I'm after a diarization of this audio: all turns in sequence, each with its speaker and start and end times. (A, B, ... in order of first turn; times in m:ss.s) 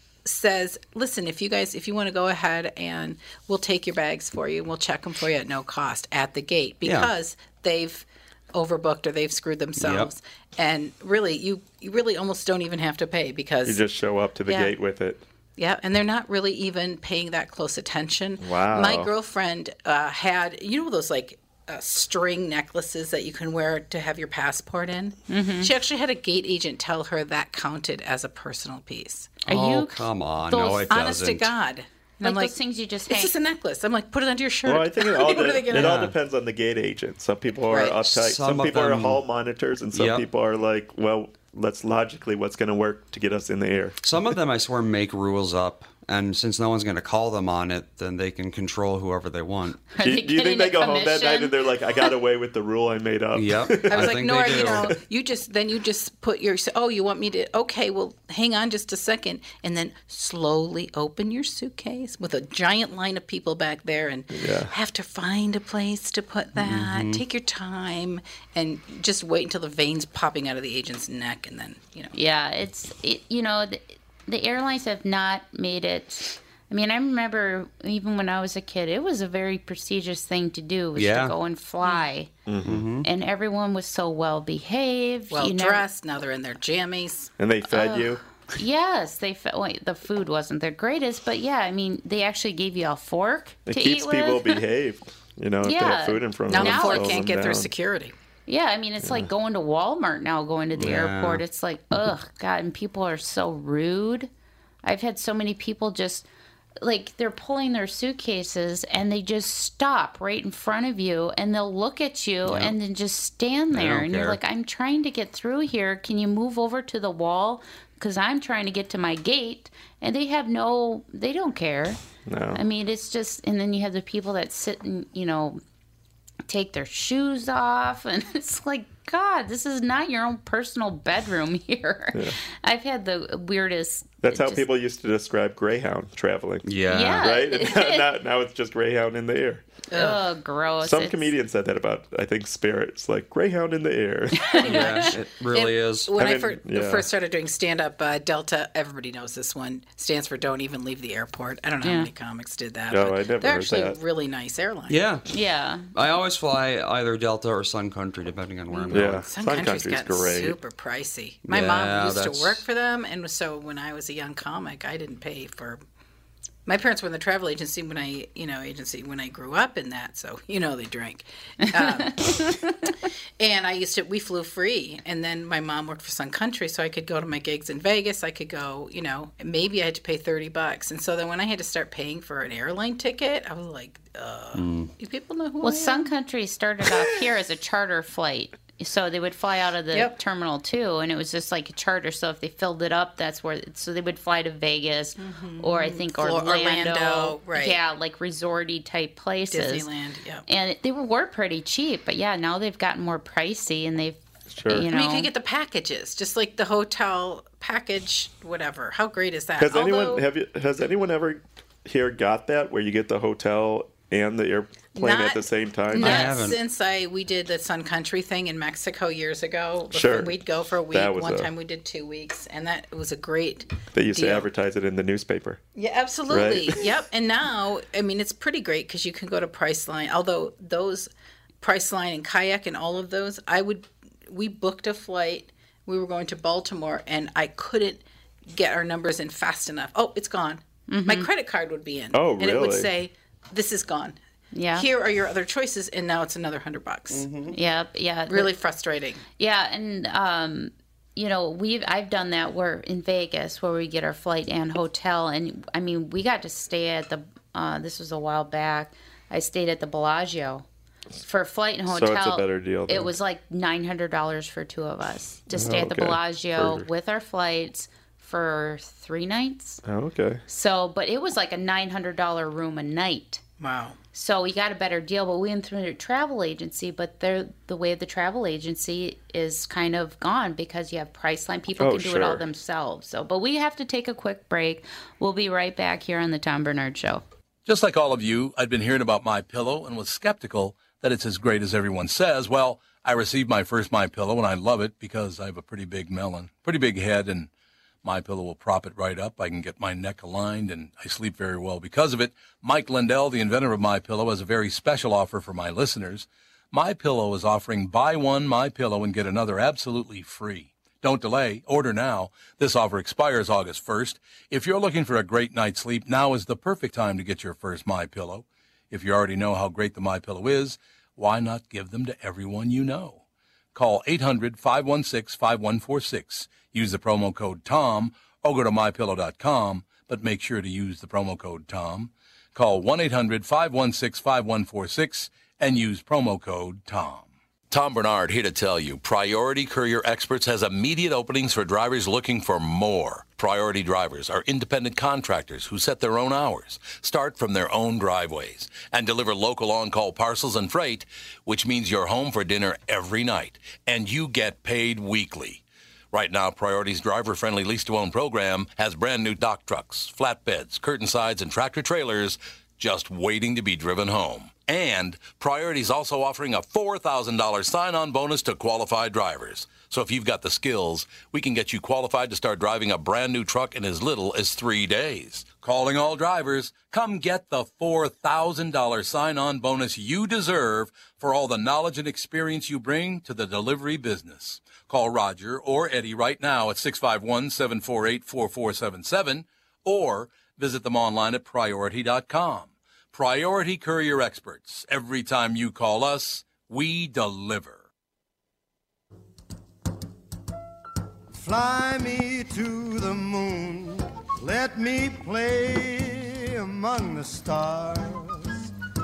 0:00.2-0:13.8 A
0:06.8-0:07.1 B
0:09.8-0:10.1 B
0:13.6-0:15.2 C
0:14.5-0:14.7 A
0:15.6-0:29.4 A
0:18.4-0:19.1 C
0:25.3-0:25.7 D
0:29.4-0:30.9 D
0:29.5-0:31.5 B
0:30.9-0:32.5 A
0:32.2-0:33.3 D
0:33.1-0:36.0 A
0:34.6-0:44.0 C
0:35.7-0:36.1 B
0:37.7-0:38.0 A
0:38.0-0:39.2 B
0:39.9-0:40.2 B
0:44.0-0:49.9 B
0:49.9-0:52.1 D
0:50.0-0:55.0 C
0:53.3-0:55.0 B
0:53.9-1:12.1 A
1:04.3-1:04.7 C
1:06.6-1:07.2 B
1:12.1-1:22.3 D
1:21.0-1:21.4 B
1:22.5-1:22.8 C
1:22.6-1:23.1 B
1:23.0-1:25.8 D
1:25.3-1:27.3 A
1:27.4-1:28.2 C
1:27.7-1:34.6 D
1:33.6-1:37.7 C
1:35.6-1:37.2 D
1:36.5-1:38.1 A
1:38.5-1:44.3 D
1:39.0-1:39.3 C
1:40.8-1:41.4 B
1:44.8-1:46.3 D
1:46.8-2:02.0 D
1:52.4-1:52.8 B
1:53.7-1:54.4 B
2:02.2-2:02.6 C
2:02.5-2:05.6 D
2:06.5-2:14.6 D
2:14.2-2:19.6 C
2:16.6-2:17.2 B
2:16.9-2:18.1 D
2:19.9-2:20.2 A
2:19.9-2:21.3 D
2:20.8-2:25.1 C
2:24.4-2:25.1 D
2:24.6-2:26.1 B
2:25.5-2:35.0 A
2:26.1-2:27.1 C
2:31.8-2:32.1 D
2:32.9-2:34.0 C
2:34.9-2:35.2 B
2:35.3-2:35.9 D
2:35.9-2:39.2 B
2:38.7-2:45.8 A
2:38.9-2:40.6 C
2:41.4-2:42.6 B
2:46.6-2:52.5 A
2:52.0-2:52.7 D
2:53.4-3:06.1 A
3:04.5-3:04.9 B
3:05.6-3:19.9 D
3:15.2-3:17.8 A
3:19.5-3:20.4 A
3:20.4-3:25.3 D
3:24.5-3:24.9 C
3:24.9-3:30.2 A
3:29.6-3:36.3 C
3:34.9-3:44.5 A
3:36.0-3:36.6 B
3:39.9-3:40.4 C
3:40.9-3:41.5 C
3:43.9-3:45.6 C
3:45.8-3:51.1 A
3:46.3-3:46.8 C
3:51.6-4:04.2 A
4:00.9-4:01.3 D
4:02.1-4:02.9 C
4:04.5-4:04.8 D
4:04.7-4:07.3 A
4:07.1-4:07.6 B
4:07.5-4:08.5 D
4:08.3-4:09.2 A
4:09.4-4:20.6 D
4:21.2-4:29.8 D
4:21.9-4:23.1 C
4:25.5-4:26.9 C
4:29.8-4:30.4 C
4:30.5-4:33.4 D
4:33.6-4:34.0 A
4:34.1-4:47.2 D
4:41.8-4:42.4 C
4:47.6-4:57.5 E
4:58.0-5:23.2 E
5:23.7-6:37.8 E
6:41.3-6:48.7 F